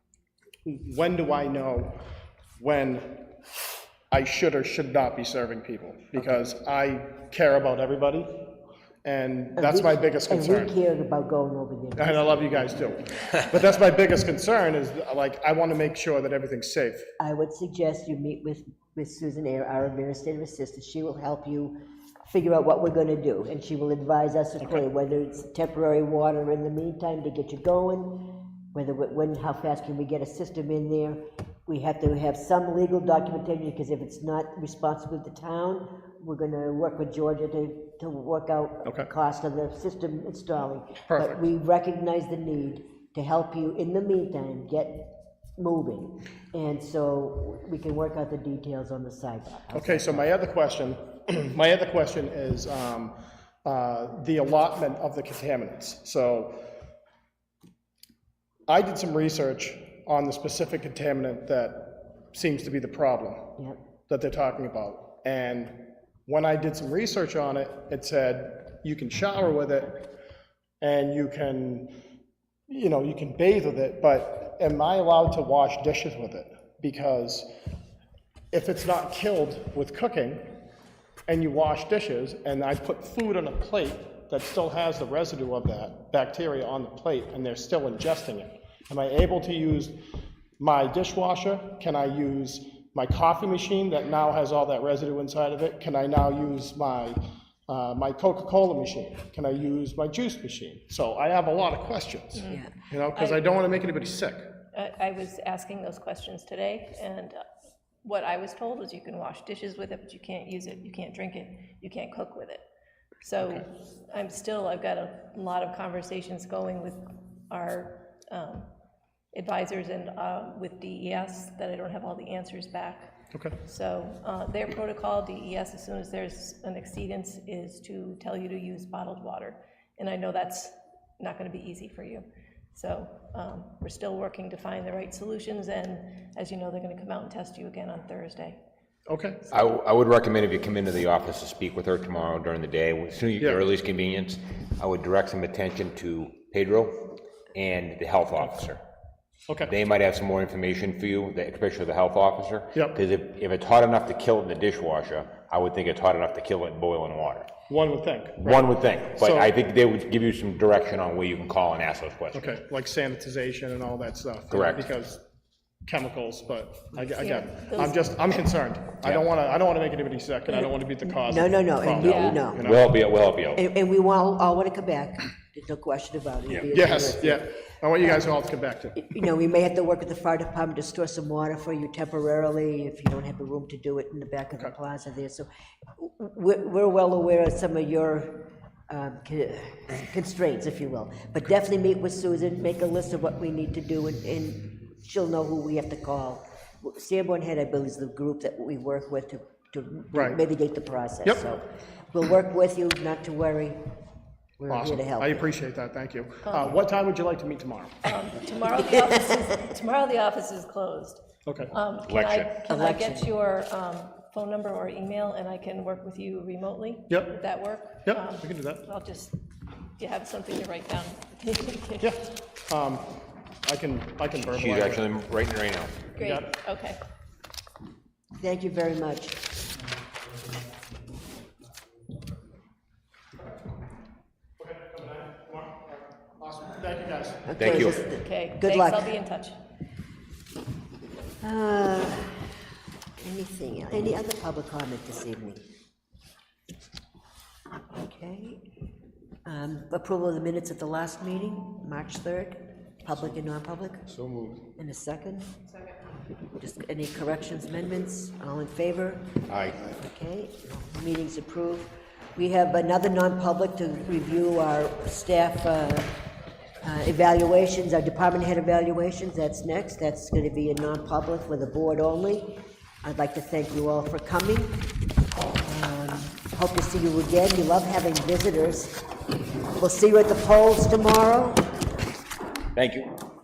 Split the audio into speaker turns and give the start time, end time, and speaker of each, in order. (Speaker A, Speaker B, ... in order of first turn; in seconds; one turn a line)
Speaker A: 0.7-2.0
Speaker A: 2.6-3.3
Speaker A: 4.1-8.5
Speaker A: 9.0-10.7
Speaker B: 9.6-12.8
Speaker A: 12.0-17.1
Speaker B: 17.2-50.3
Speaker A: 49.7-56.7
Speaker A: 58.7-63.5
Speaker A: 64.1-70.1
Speaker A: 70.8-72.0
Speaker A: 72.7-77.5
Speaker A: 78.5-80.5
Speaker A: 81.3-90.0
Speaker A: 90.6-104.5
Speaker C: 102.3-103.4
Speaker C: 104.7-107.4
Speaker C: 108.0-112.6
Speaker C: 113.2-118.7
Speaker C: 119.3-123.1
Speaker C: 123.7-138.6
Speaker A: 139.1-139.4
Speaker D: 139.5-148.8
Speaker A: 149.5-149.7
Speaker D: 149.7-157.5
Speaker A: 157.7-159.5
Speaker D: 158.4-162.6
Speaker A: 162.3-165.2
Speaker D: 164.5-164.9
Speaker A: 165.9-173.0
Speaker C: 167.2-168.2
Speaker B: 170.5-172.7
Speaker C: 172.0-172.5
Speaker D: 172.6-173.6
Speaker B: 173.5-177.4
Speaker A: 176.7-179.0
Speaker B: 178.0-178.3
Speaker B: 179.0-203.8
Speaker A: 200.1-200.4
Speaker B: 204.6-205.5
Speaker A: 204.7-208.0
Speaker C: 206.5-206.7
Speaker C: 208.1-219.4
Speaker A: 211.5-211.7
Speaker D: 212.1-212.5
Speaker B: 212.7-213.3
Speaker A: 218.1-218.8
Speaker C: 220.0-222.1
Speaker A: 222.0-223.1
Speaker A: 223.6-225.1
Speaker D: 224.4-226.1
Speaker C: 226.2-227.0
Speaker A: 226.2-226.5
Speaker B: 228.4-229.4
Speaker A: 234.6-237.8
Speaker B: 237.4-239.2
Speaker D: 237.6-238.0
Speaker C: 237.6-239.6
Speaker B: 241.4-242.5
Speaker B: 243.2-245.7
Speaker B: 247.9-248.6
Speaker B: 249.4-255.6
Speaker B: 256.6-266.2
Speaker B: 266.8-274.9
Speaker B: 275.6-279.0
Speaker B: 279.8-281.7
Speaker D: 282.8-283.1